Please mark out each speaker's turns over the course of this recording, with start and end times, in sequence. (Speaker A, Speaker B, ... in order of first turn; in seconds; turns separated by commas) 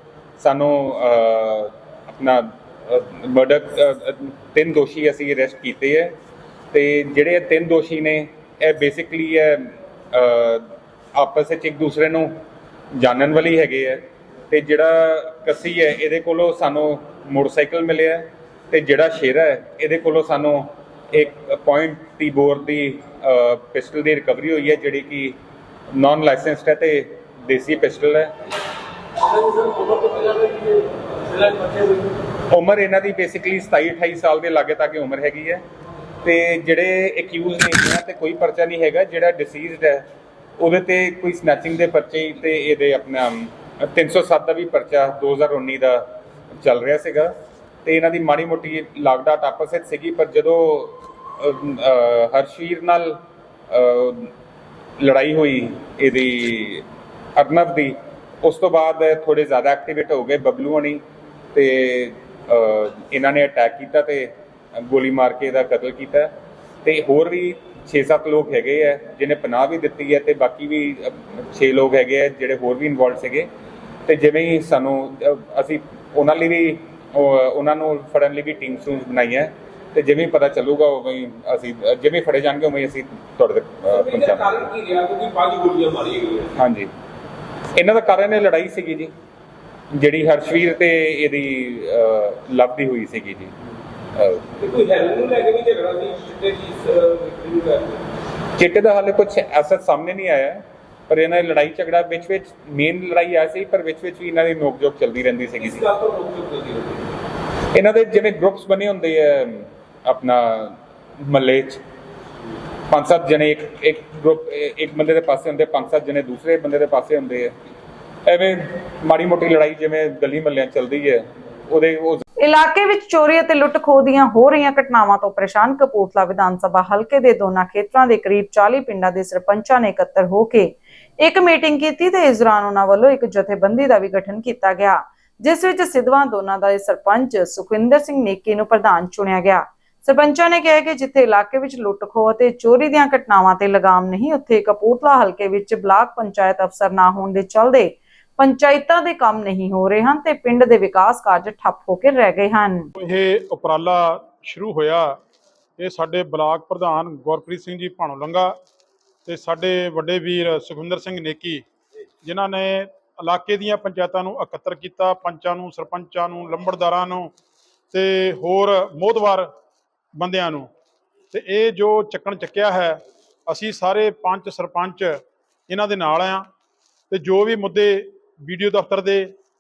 Speaker A: 0.4-6.1, Speaker A: 6.7-12.3, Speaker A: 12.9-25.4, Speaker A: 25.9-28.3, Speaker A: 32.5-35.6, Speaker A: 36.2-40.0, Speaker A: 40.6-46.0, Speaker A: 46.6-47.3, Speaker A: 47.9-53.2, Speaker A: 53.7-54.3, Speaker A: 55.0-56.8, Speaker A: 57.4-61.0, Speaker A: 61.5-66.3, Speaker A: 66.8-73.5, Speaker A: 74.1-84.7, Speaker B: 84.0-86.5, Speaker A: 86.6-86.9, Speaker A: 87.8-89.1, Speaker A: 89.9-93.5, Speaker A: 94.2-94.4, Speaker B: 94.6-98.0, Speaker A: 98.6-106.0, Speaker B: 105.6-107.0, Speaker A: 107.7-111.8, Speaker A: 112.9-117.5, Speaker A: 118.3-122.2, Speaker C: 122.4-152.9, Speaker D: 153.0-155.2, Speaker D: 155.8-158.6, Speaker D: 159.3-161.6, Speaker D: 162.2-167.3, Speaker D: 167.9-169.5, Speaker D: 170.2-170.7, Speaker D: 171.3-176.5, Speaker D: 177.1-179.3